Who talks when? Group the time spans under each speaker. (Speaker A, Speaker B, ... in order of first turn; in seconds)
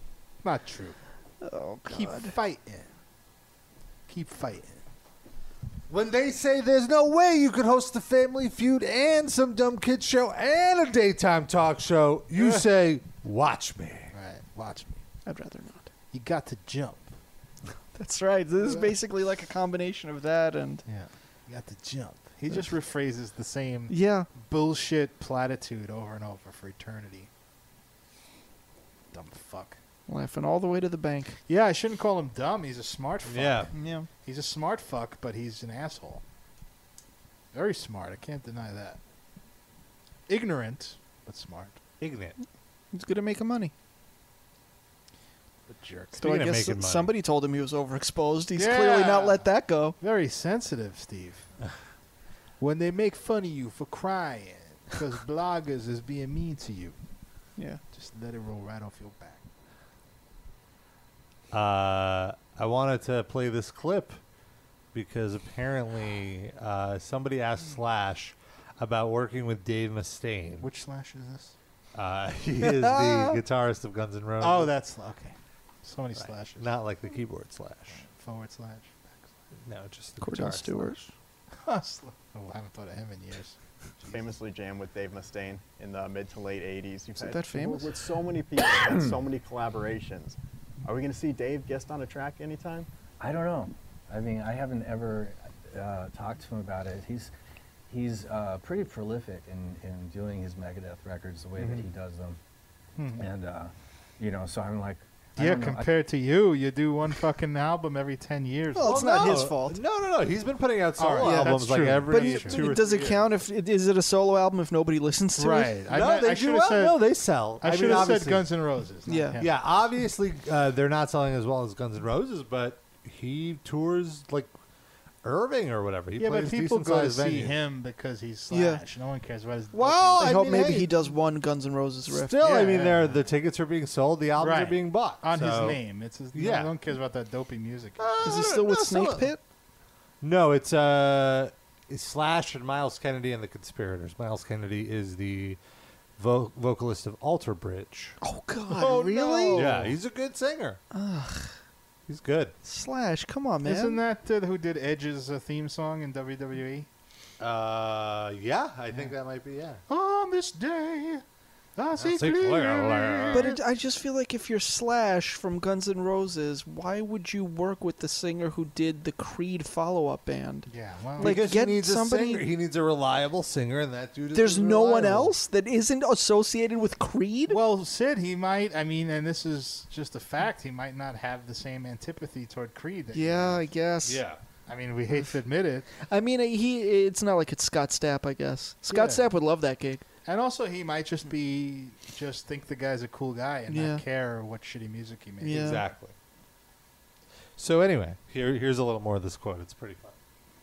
Speaker A: 0.4-1.0, 1.9-2.9, 4.1-4.8, 12.3-12.7, 14.1-15.0, 16.1-17.1, 18.6-18.9, 20.9-27.3, 29.1-29.8, 31.5-36.2, 37.5-39.0, 40.3-41.8, 45.7-46.2, 48.5-49.5, 50.0-51.5, 52.6-57.0, 57.9-59.4, 70.6-71.5, 74.4-76.7, 77.9-79.3, 81.6-84.2, 103.0-103.3, 105.4-109.4, 111.0-113.2, 115.3-117.0, 117.6-119.8, 126.2-130.9, 132.4-133.2, 134.4-138.2, 148.7-149.9, 153.6-156.9, 159.9-161.2, 161.8-163.6, 170.7-171.5, 177.5-183.7, 184.7-185.9, 188.9-189.3, 190.2-195.8
Speaker B: 1.4-2.3, 15.2-15.9, 17.9-20.8, 23.9-24.3, 30.1-31.4, 33.7-34.1, 42.9-43.7, 46.2-50.0, 72.6-73.4, 80.2-81.1, 87.2-87.9, 108.7-109.8, 111.2-115.8, 119.1-119.4, 128.5-128.8, 129.7-132.4, 138.2-139.4, 148.2-149.8, 150.9-151.5, 152.6-154.0, 163.3-170.7, 171.2-172.4, 174.3-177.6, 183.1-184.2, 186.0-190.0, 193.7-194.0, 195.4-195.8
Speaker C: 5.9-14.1, 33.3-33.7, 42.0-42.3, 46.2-47.1, 61.5-64.2, 64.9-70.7, 71.9-74.7, 76.2-78.0, 79.6-80.9, 108.8-113.3, 115.9-118.5, 119.4-124.5, 125.2-127.6, 130.2-130.9, 132.1-135.8, 136.3-136.7, 138.0-139.3, 140.2-145.6, 146.2-148.2, 149.5-150.8, 152.1-152.5, 157.4-159.8, 161.9-163.6, 171.2-175.3, 184.0-184.4, 195.5-196.1, 197.6-200.2
Speaker D: 84.1-92.9
Speaker E: 93.2-97.3, 97.9-102.4, 103.2-105.9